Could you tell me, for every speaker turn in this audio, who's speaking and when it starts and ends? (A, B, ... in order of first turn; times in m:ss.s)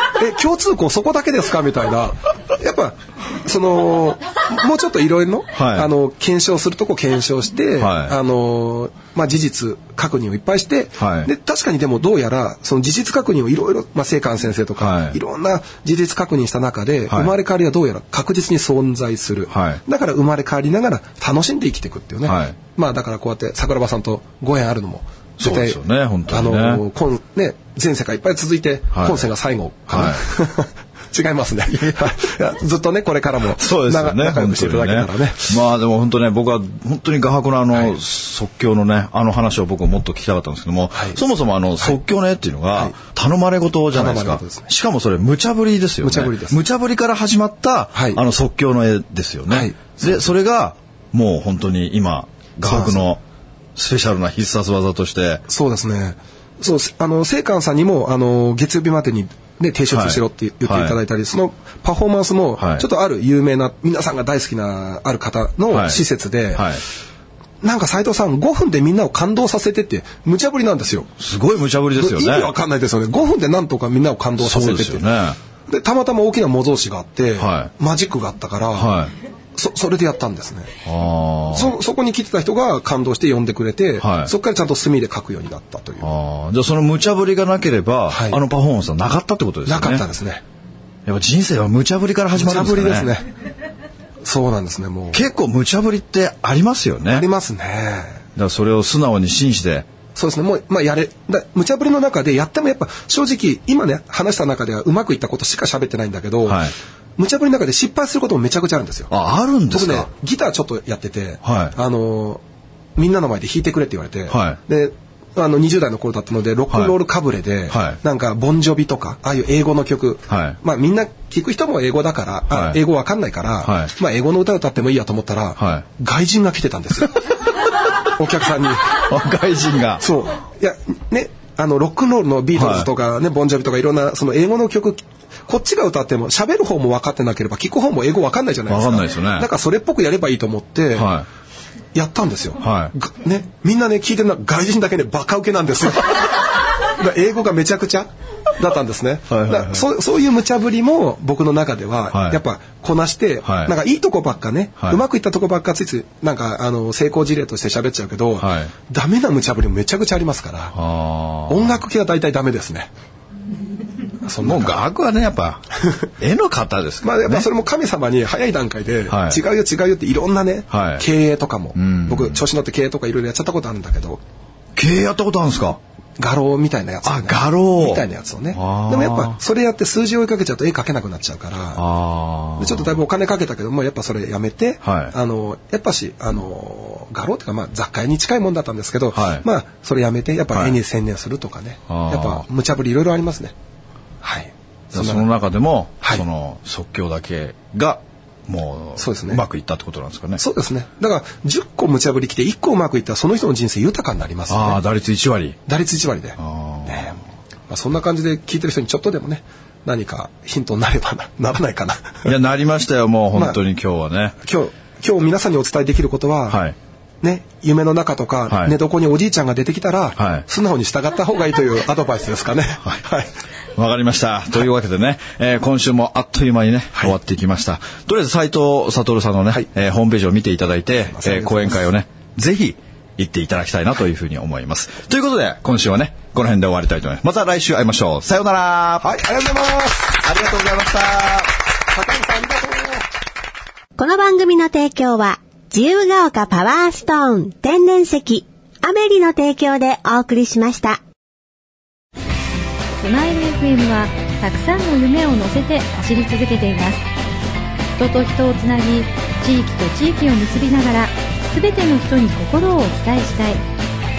0:00.1-0:35.6 A
0:05.5-0:05.9 B
0:07.8-0:08.1 B
0:11.0-0:11.3 B
0:14.8-0:15.2 B
0:17.1-0:17.3 B
0:19.5-0:19.8 B
0:22.2-0:22.6 B
0:25.4-0:26.8 B
0:28.9-0:29.3 B
0:29.9-0:30.2 B
0:33.5-0:53.2 B
0:40.9-0:41.2 A
0:43.9-0:44.7 A
0:46.0-0:46.6 A
0:47.9-0:48.2 A
0:49.5-0:50.2 A
0:52.6-0:53.0 A
0:53.8-0:55.4 B
0:55.5-1:06.8 A
0:59.9-1:01.0 B
1:02.6-1:02.9 B
1:05.7-1:06.8 B
1:07.6-1:11.1 A
1:11.2-1:12.5 B
1:12.0-1:15.1 A
1:14.4-1:15.4 B
1:15.7-1:20.7 A
1:17.4-1:17.7 B
1:18.7-1:19.1 B
1:20.8-1:21.8 B
1:21.5-1:26.0 A
1:24.0-1:24.3 B
1:26.0-1:30.0 B
1:28.1-1:28.4 A
1:29.6-1:30.4 A
1:31.0-1:33.1 B
1:32.3-1:33.3 A
1:34.2-1:35.2 A
1:35.1-1:37.2 B
1:37.1-1:38.2 A
1:38.4-1:39.9 B
1:40.1-1:49.1 A
1:46.4-1:46.7 B
1:49.1-1:50.1 B
1:49.7-1:52.4 A
1:51.4-1:51.7 B
1:53.0-2:07.2 A
1:54.3-1:54.6 B
1:56.7-1:57.0 B
1:57.7-1:58.0 B
2:00.3-2:00.6 B
2:02.5-2:02.8 B
2:03.6-2:03.9 B
2:05.6-2:05.8 B
2:08.2-2:09.0 A
2:08.9-2:10.0 B
2:10.0-2:21.1 A
2:12.5-2:12.9 B
2:18.7-2:19.5 B
2:20.9-2:21.3 B
2:21.9-2:40.8 A
2:22.6-2:22.9 B
2:29.3-2:29.8 B
2:32.1-2:32.4 B
2:33.4-2:33.7 B
2:38.4-2:38.7 B
2:40.7-2:41.7 B
2:41.5-2:42.9 A
2:44.2-2:44.8 A
2:44.4-2:47.5 B
2:47.0-2:54.2 A
2:49.1-2:49.4 B
2:50.7-2:51.0 B
2:51.7-2:52.4 B
2:54.8-2:55.8 B
2:56.2-3:01.8 A
2:57.0-2:59.4 B
3:01.8-3:03.0 B
3:02.6-3:13.5 A
3:04.8-3:05.1 B
3:09.1-3:09.4 B
3:11.9-3:12.4 B
3:14.2-3:15.2 A
3:14.9-3:20.4 B
3:19.0-3:19.4 A
3:20.4-3:24.8 A
3:24.5-3:25.6 B
3:25.6-3:32.3 A
3:26.4-3:27.2 B
3:32.2-3:34.4 B
3:34.4-3:36.6 A
3:36.5-3:36.7 B
3:37.2-3:43.3 A
3:38.5-3:38.8 B
3:40.2-3:40.4 B
3:43.7-3:59.2 B
3:51.1-3:51.8 A
3:59.0-4:00.4 A
4:00.2-4:01.5 B
4:01.8-4:03.0 A
4:04.0-4:11.0 C
4:13.0-4:17.0 D
4:18.0-4:23.6 D